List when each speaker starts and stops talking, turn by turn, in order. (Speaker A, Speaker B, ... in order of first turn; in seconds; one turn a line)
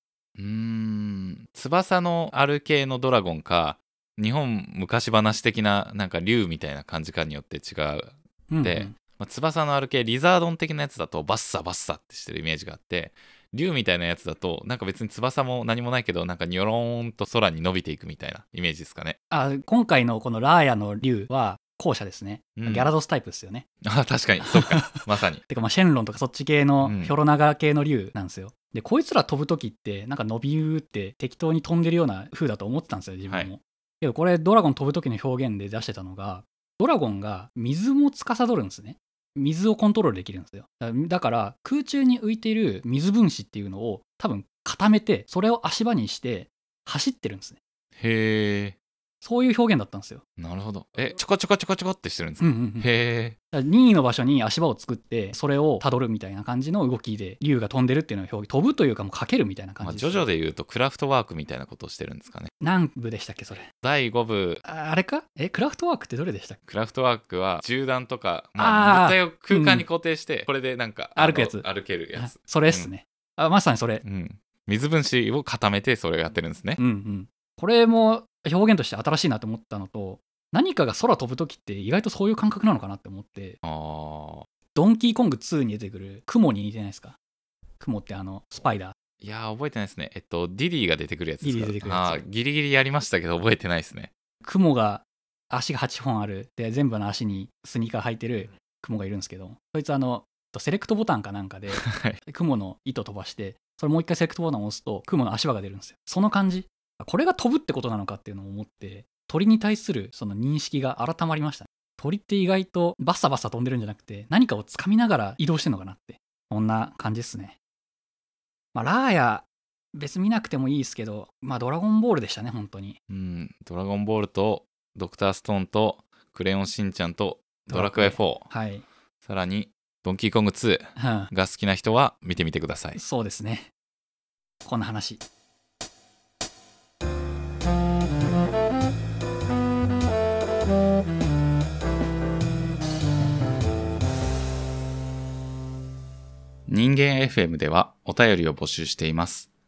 Speaker A: 0.4-19.2
Speaker B: 8.5-8.9
Speaker B: 19.3-23.6
Speaker A: 22.6-22.9
Speaker A: 23.8-25.4
Speaker B: 24.4-47.6
Speaker A: 26.8-27.1
Speaker A: 48.0-48.7
Speaker B: 49.2-50.2
Speaker A: 50.4-53.4
Speaker B: 52.4-52.9
Speaker B: 53.5-60.3
Speaker A: 59.8-62.5
Speaker B: 62.6-63.7
Speaker A: 63.8-64.6
Speaker B: 64.6-66.6
Speaker A: 66.7-72.9
Speaker B: 68.6-69.8
Speaker B: 71.2-74.0
Speaker A: 74.0-76.8
Speaker B: 76.8-83.6
Speaker A: 83.6-84.5
Speaker B: 84.8-87.2
Speaker B: 87.8-88.9
Speaker A: 89.2-94.1
Speaker B: 91.4-92.2
Speaker B: 94.4-117.6
Speaker A: 101.7-102.2
Speaker B: 118.7-123.0
Speaker A: 123.1-128.5
Speaker B: 127.7-128.8
Speaker A: 129.2-133.0
Speaker B: 131.0-131.3
Speaker B: 132.9-133.7
Speaker B: 134.6-135.2
Speaker A: 146.7-149.5